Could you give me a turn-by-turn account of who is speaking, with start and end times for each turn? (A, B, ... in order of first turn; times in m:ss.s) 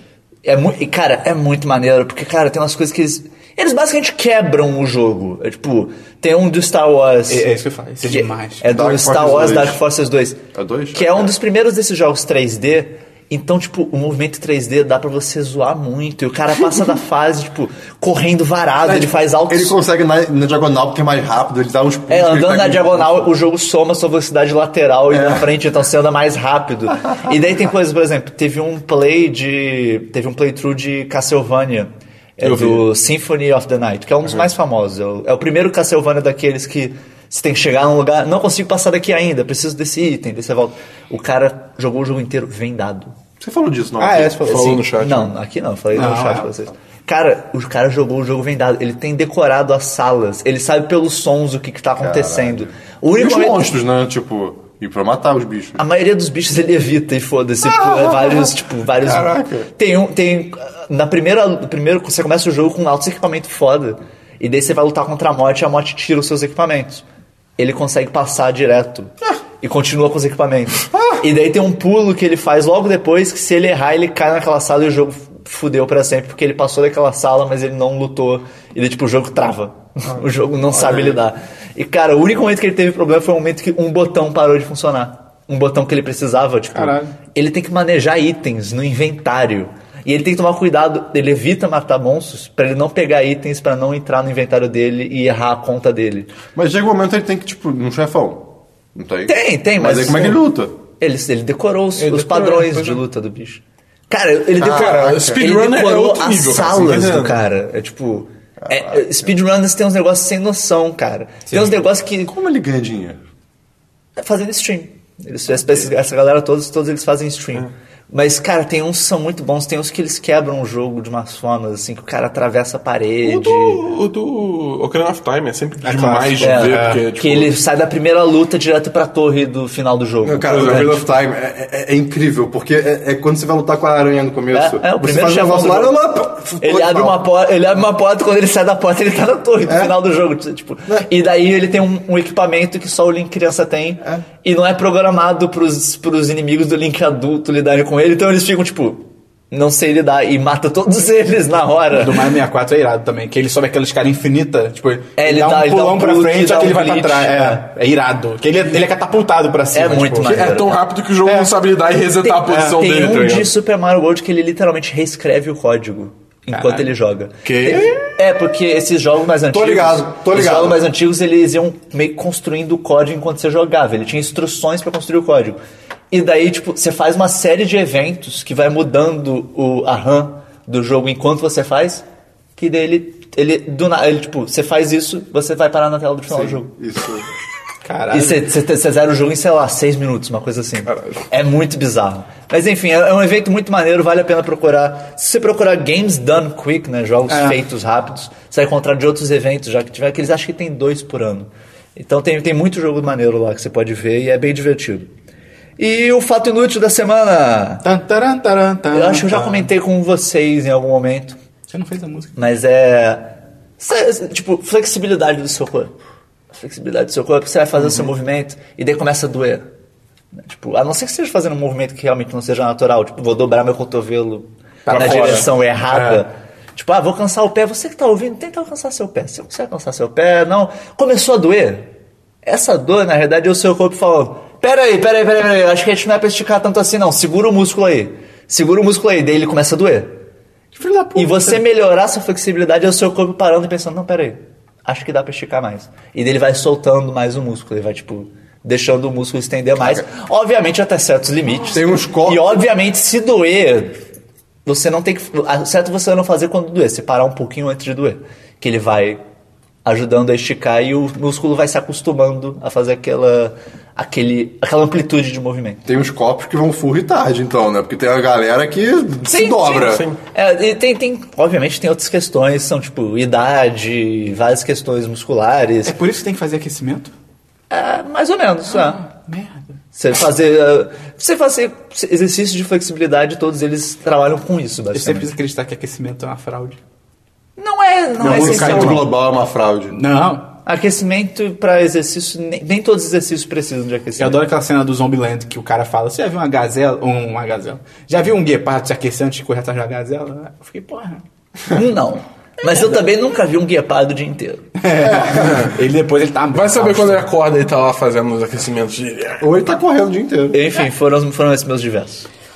0:00.4-0:07.4 A
0:07.3-0:08.6 B
0:08.0-0:10.4 A
0:08.6-0:09.8 C
0:10.5-0:11.3 C
0:10.9-0:19.8 A
0:18.8-0:23.3 C
0:22.1-0:43.1 A
0:25.1-0:25.5 C
0:32.4-0:32.8 D
0:43.4-0:44.6 C
0:44.0-0:44.9 B
0:44.4-0:45.3 D
0:44.7-0:53.7 A
0:45.9-0:46.5 B
0:52.0-0:55.8 C
0:55.8-1:07.0 A
0:57.6-0:59.7 C
1:07.6-1:36.3 A
1:10.9-1:11.2 C
1:20.1-1:21.2 C
1:26.7-1:27.1 B
1:36.5-1:40.7 C
1:39.3-1:40.4 A
1:41.0-1:52.3 A
1:42.0-1:43.0 D
1:44.6-1:45.4 C
1:44.6-1:47.4 D
1:48.6-1:49.3 C
1:52.3-1:53.2 C
1:54.2-2:03.9 A
2:03.2-2:07.5 D
2:05.8-2:07.0 B
2:06.4-2:11.0 A
2:10.3-2:11.0 D
2:10.3-2:17.2 C
2:14.5-2:32.3 A
2:19.6-2:19.9 C
2:31.9-2:40.4 B
2:35.2-2:37.6 A
2:39.7-2:40.8 A
2:40.2-2:43.5 D
2:41.2-2:41.5 B
2:42.2-2:55.6 A
2:42.4-2:42.8 B
2:46.5-2:46.9 B
2:47.4-2:48.0 D
2:49.5-2:50.8 C
2:56.1-3:02.0 A
3:02.6-3:06.7 A
3:06.3-3:07.3 C
3:07.8-3:08.4 B
3:08.1-3:25.1 A
3:10.9-3:11.1 D
3:17.3-3:17.6 B
3:25.8-3:27.8 A
3:27.8-3:29.7 B
3:28.9-3:31.4 A
3:31.7-3:32.4 B
3:32.4-3:33.3 A
3:33.8-3:35.9 A
3:36.5-3:39.6 A
3:40.3-3:51.9 A
3:44.8-3:46.2 B
3:44.9-3:45.4 D
3:52.4-4:00.2 A
4:00.7-4:01.6 B
4:01.1-4:14.0 A
4:09.8-4:10.0 C
4:11.6-4:12.6 C
4:14.6-4:19.2 A
4:19.8-4:25.8 A
4:25.8-4:30.1 C
4:29.2-4:35.9 A
4:29.8-4:30.2 D
4:35.8-4:37.1 B
4:37.7-4:39.0 A
4:38.7-4:39.6 B
4:39.9-4:45.3 A
4:44.9-4:46.8 B
4:47.6-4:49.1 A
4:48.2-4:49.1 B
4:48.2-4:50.0 C
4:49.9-4:50.5 B
4:50.6-4:54.4 A
4:54.2-5:01.2 B
5:01.7-5:04.7 A
5:04.8-5:07.3 B
5:05.0-5:05.5 C
5:05.3-5:05.8 D
5:06.5-5:09.6 D
5:09.4-5:10.6 C
5:10.5-5:12.3 A